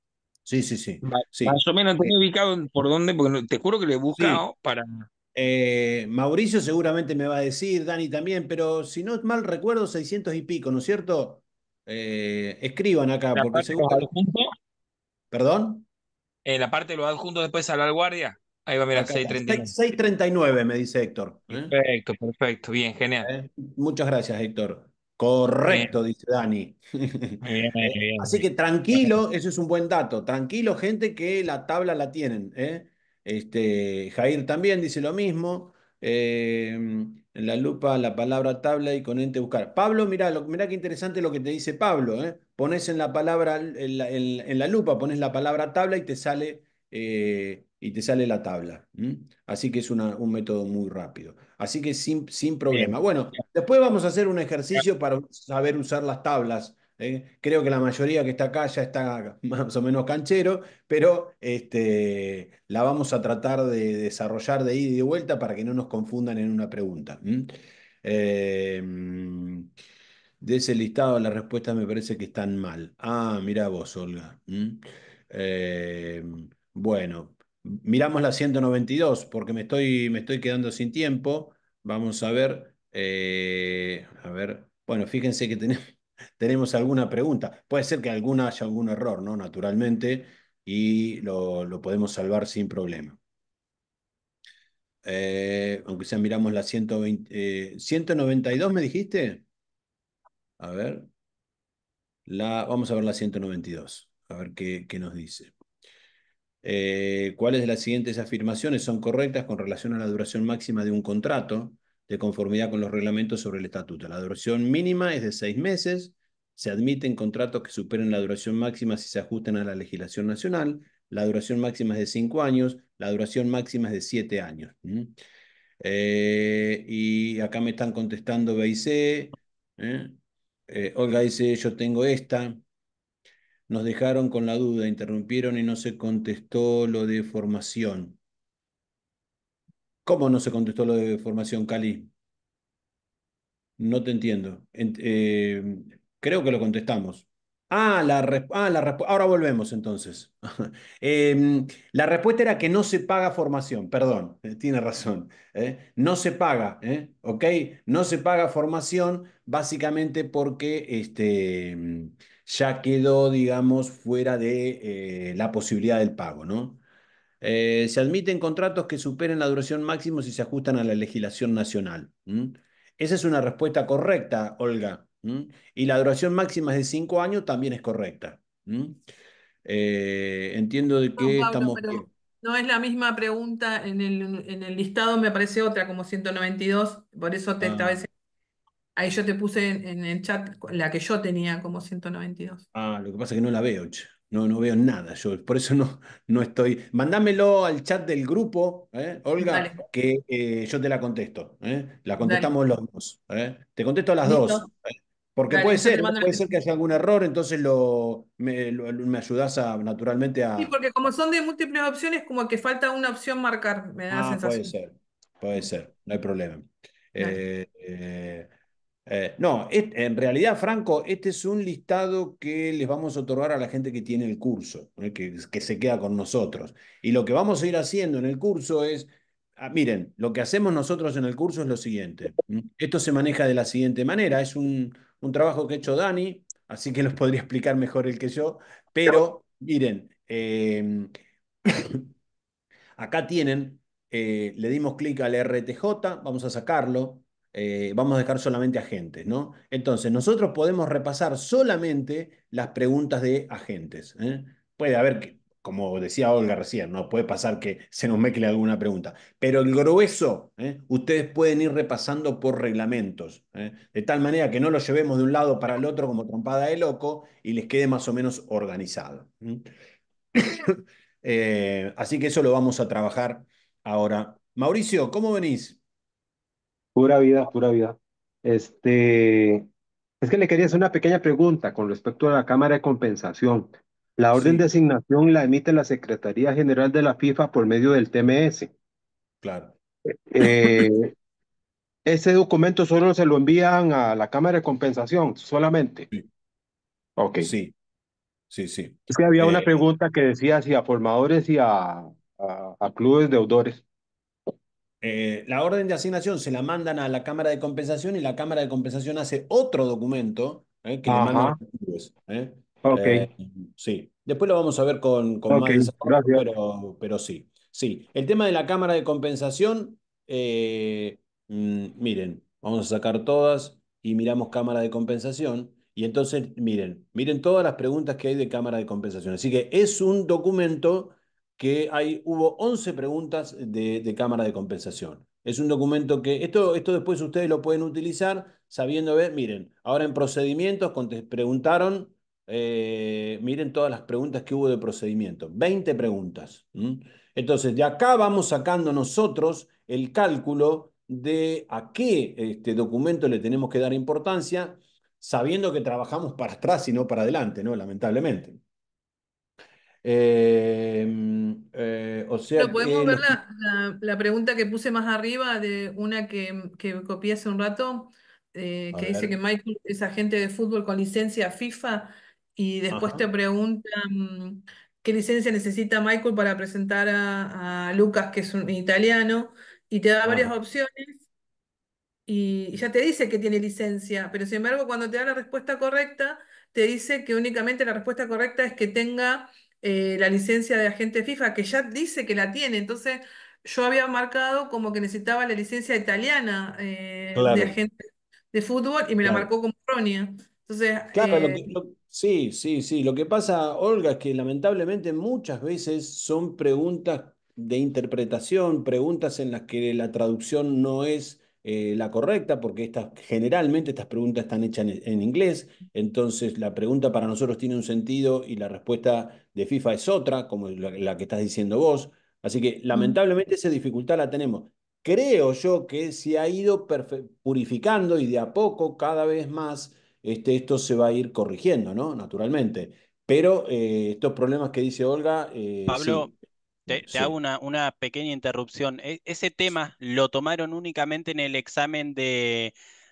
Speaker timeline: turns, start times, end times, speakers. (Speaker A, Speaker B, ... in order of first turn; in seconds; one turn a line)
Speaker A: 0.5-2.1
Speaker B: 1.0-5.1
Speaker A: 4.2-4.4
Speaker A: 5.3-14.1
Speaker B: 13.4-14.5
Speaker A: 15.3-15.9
Speaker B: 16.4-19.7
Speaker A: 18.9-21.7
Speaker B: 21.5-23.3
Speaker A: 23.2-67.5
Speaker B: 25.7-25.9
Speaker B: 27.4-28.4
Speaker A: 68.0-69.7
Speaker A: 70.4-85.8
Speaker A: 86.4-93.2
Speaker A: 95.0-99.4
Speaker A: 100.6-101.1
Speaker A: 102.3-105.5
Speaker A: 106.6-125.1
Speaker A: 125.8-130.2
Speaker A: 130.7-132.6
Speaker A: 133.7-138.2
Speaker A: 140.1-142.1
Speaker A: 143.8-166.8
Speaker A: 167.4-179.0
Speaker A: 179.7-182.1
Speaker C: 181.2-188.1
Speaker A: 187.6-188.1
Speaker C: 189.0-192.6
Speaker A: 192.7-210.8
Speaker C: 199.4-199.8
Speaker C: 202.2-202.5
Speaker C: 204.2-204.7
Speaker C: 205.5-206.5
Speaker C: 210.6-214.7
Speaker A: 214.1-218.5
Speaker A: 219.1-241.1
Speaker A: 241.7-242.1
Speaker A: 243.0-269.7
Speaker A: 270.4-275.8
Speaker D: 276.9-279.7
Speaker D: 280.2-288.7
Speaker A: 284.3-284.7
Speaker A: 289.4-289.8
Speaker D: 290.3-291.1
Speaker D: 292.1-296.1
Speaker D: 297.2-297.5
Speaker A: 297.4-297.8
Speaker A: 298.5-299.8
Speaker D: 299.1-303.9
Speaker A: 305.0-358.6
Speaker D: 311.1-311.6
Speaker D: 312.8-313.3
Speaker D: 315.5-316.4
Speaker A: 360.0-363.4
Speaker C: 362.6-381.2
Speaker A: 368.9-369.4
Speaker A: 372.9-373.3
Speaker A: 380.2-380.5
Speaker C: 382.3-401.7
Speaker A: 397.4-397.8
Speaker A: 399.2-399.5
Speaker A: 401.1-436.3
Speaker E: 435.9-436.3
Speaker A: 436.9-437.4
Speaker E: 436.9-442.7